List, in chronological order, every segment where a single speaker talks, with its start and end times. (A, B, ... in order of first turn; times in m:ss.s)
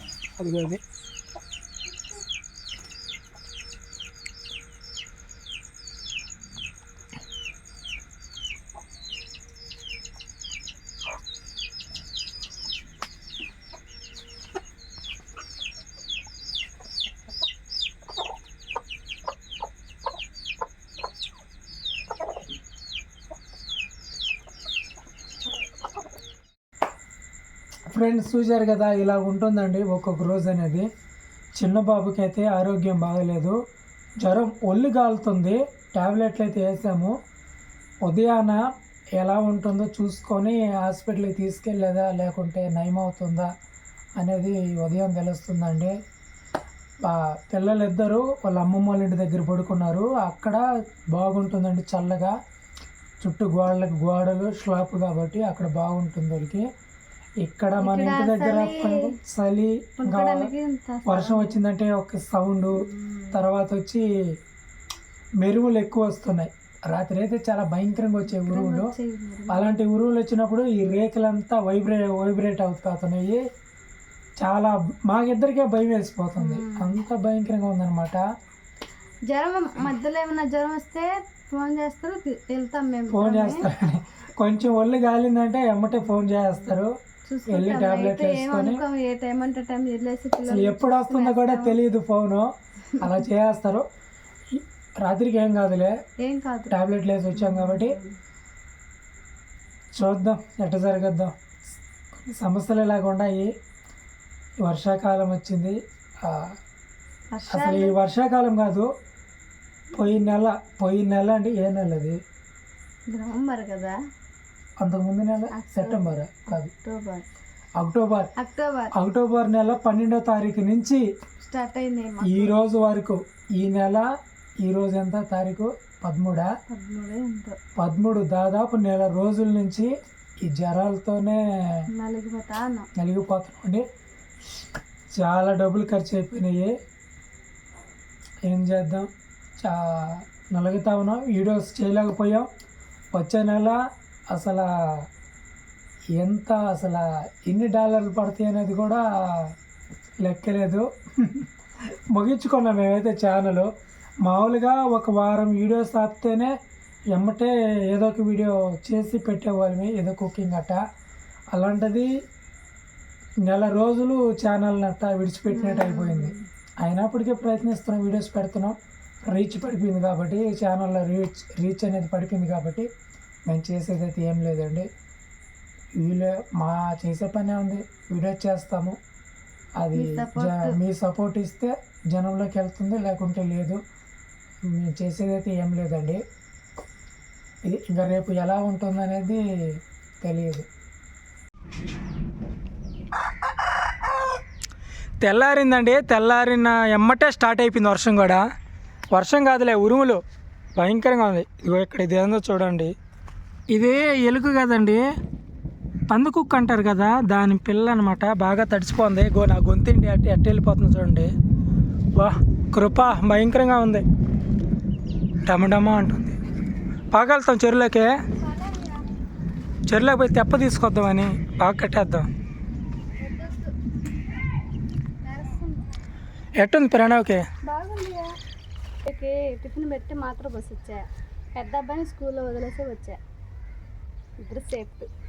0:00.4-0:00.8 A
0:27.9-0:30.9 A
0:31.6-0:33.6 A
0:34.2-0:37.1 A
0:38.0-0:38.6 A
0:39.2-0:43.5 A
0:44.2-0:45.9 A
0:47.0-0:52.3 A
0:53.2-0:56.6 A
0:57.4-1:00.5 A
0:57.8-0:59.1 B
1:00.0-1:01.6 B
1:01.0-1:04.0 A
1:02.8-1:03.4 B
1:05.4-1:08.9 A
1:08.3-1:09.8 B
1:09.5-1:13.4 A
1:14.4-1:18.2 A
1:16.4-1:17.0 B
1:19.3-1:23.7 B
1:23.1-1:26.9 A
1:27.3-1:31.8 B
1:27.5-1:28.8 A
1:30.5-1:33.8 A
1:34.5-1:35.9 A
1:36.2-1:36.8 B
1:36.7-1:38.0 A
1:37.3-1:38.1 B
1:39.9-1:41.3 A
1:42.2-1:43.5 A
1:44.6-1:46.6 A
1:47.3-1:48.0 B
1:47.5-1:48.9 A
1:49.9-1:52.2 A
1:53.1-1:53.9 B
1:54.8-1:56.7 A
1:55.5-1:57.2 B
1:57.8-1:58.3 A
1:58.4-1:58.9 B
1:58.9-2:01.0 A
2:01.4-2:02.6 B
2:02.2-2:04.1 A
2:04.6-2:06.5 A
2:06.7-2:07.6 B
2:07.8-2:09.9 A
2:10.4-2:11.8 A
2:11.9-2:12.9 B
2:12.9-2:13.8 A
2:15.1-2:16.7 A
2:18.4-2:22.5 A
2:23.1-2:23.8 A
2:24.3-2:25.0 A
2:26.2-2:29.5 A
2:30.2-2:31.5 A
2:32.1-2:33.7 A
2:34.2-2:36.5 A
2:37.1-2:40.8 A
2:41.5-2:42.1 A
2:43.4-2:48.8 A
2:45.5-2:46.4 B
2:49.3-2:52.9 A
2:53.4-2:54.9 A
2:56.0-2:59.0 A
2:59.8-3:03.8 A
2:59.9-3:00.8 B
3:04.7-3:06.2 A
3:07.6-3:09.4 A
3:10.2-3:10.6 A
3:15.2-3:18.4 A
3:19.1-3:20.2 A
3:20.7-3:22.9 A
3:23.7-3:25.0 A
3:26.1-3:31.3 A
3:32.1-3:34.0 A
3:35.4-3:36.4 A
3:37.1-3:38.1 A
3:38.4-3:39.0 B
3:39.9-3:42.3 A
3:43.2-3:43.7 B
3:45.2-3:45.9 B
3:46.6-3:47.4 A
3:47.6-3:48.3 B
3:49.0-3:53.2 B
3:54.4-3:55.1 B